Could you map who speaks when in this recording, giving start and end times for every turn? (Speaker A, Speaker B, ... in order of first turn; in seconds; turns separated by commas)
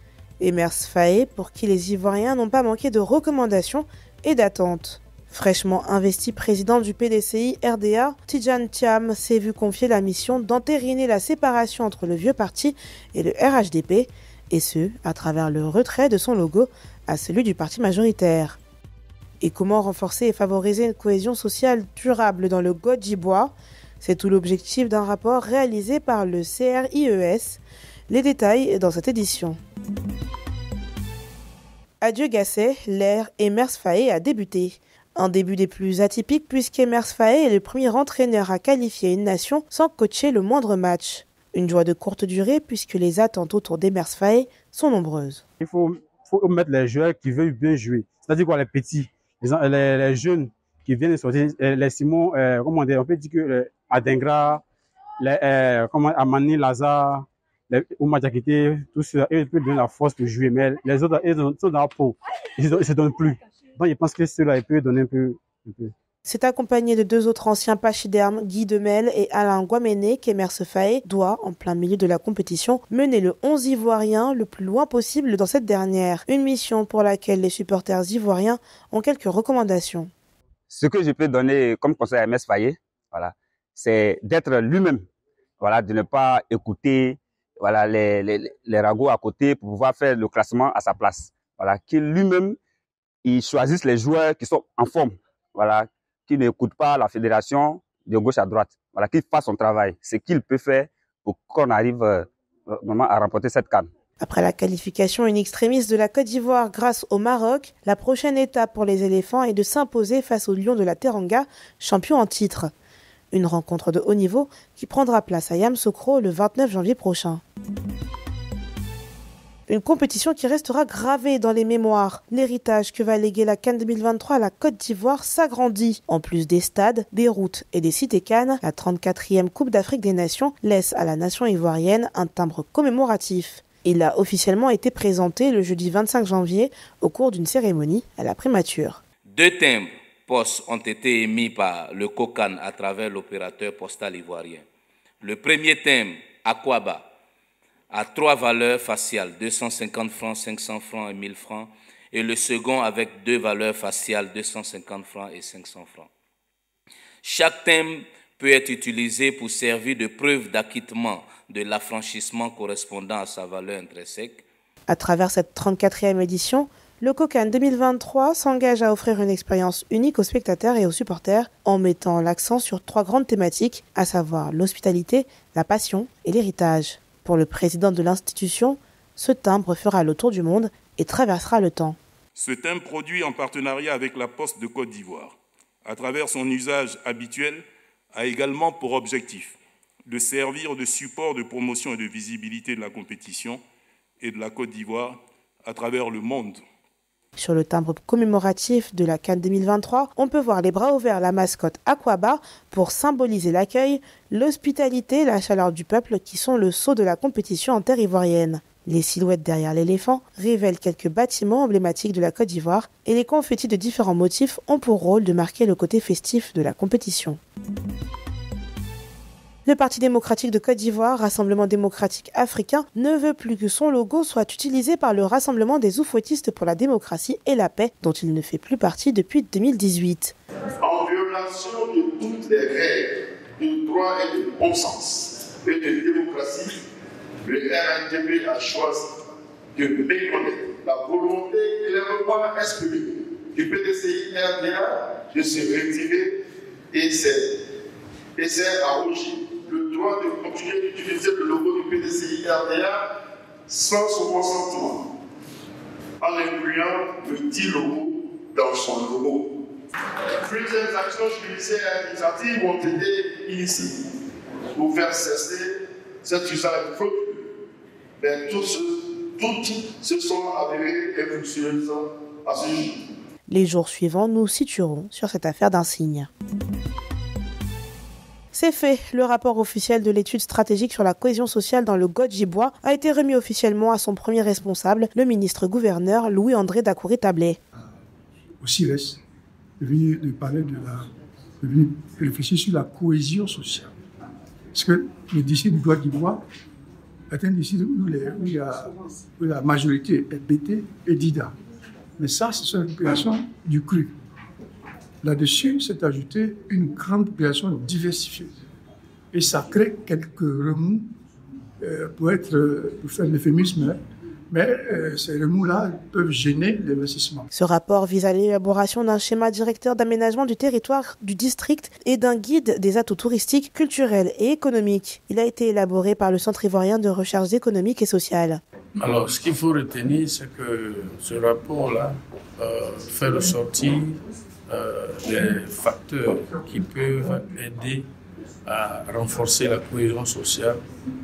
Speaker A: 0.4-18.6, Speaker A: 19.4-29.6, Speaker A: 32.0-45.4, Speaker B: 45.6-54.6, Speaker B: 55.2-65.9, Speaker A: 66.2-80.1, Speaker C: 80.7-85.0, Speaker C: 85.6-92.6, Speaker C: 93.2-103.9, Speaker A: 104.2-112.7, Speaker A: 113.3-117.4, Speaker A: 119.7-139.0, Speaker D: 139.3-144.6, Speaker D: 145.2-147.1, Speaker D: 147.9-156.1, Speaker D: 157.2-164.4, Speaker A: 164.9-182.0, Speaker E: 182.3-193.6, Speaker E: 194.2-196.6, Speaker A: 197.4-217.4, Speaker A: 219.7-230.3, Speaker F: 230.8-236.8, Speaker F: 237.4-239.2, Speaker F: 239.7-247.6, Speaker F: 248.3-255.1, Speaker F: 256.2-259.5, Speaker F: 260.4-264.1, Speaker F: 264.7-267.5, Speaker F: 268.2-273.0, Speaker A: 273.5-276.3, Speaker A: 278.5-287.6, Speaker G: 288.6-289.2, Speaker G: 289.8-291.1, Speaker G: 291.6-293.9, Speaker G: 294.7-296.4, Speaker G: 297.3-301.5, Speaker G: 302.2-304.1, Speaker G: 305.2-308.6, Speaker G: 309.3-311.0, Speaker G: 311.8-317.5, Speaker A: 317.5-328.6, Speaker H: 329.0-338.1, Speaker H: 338.6-340.8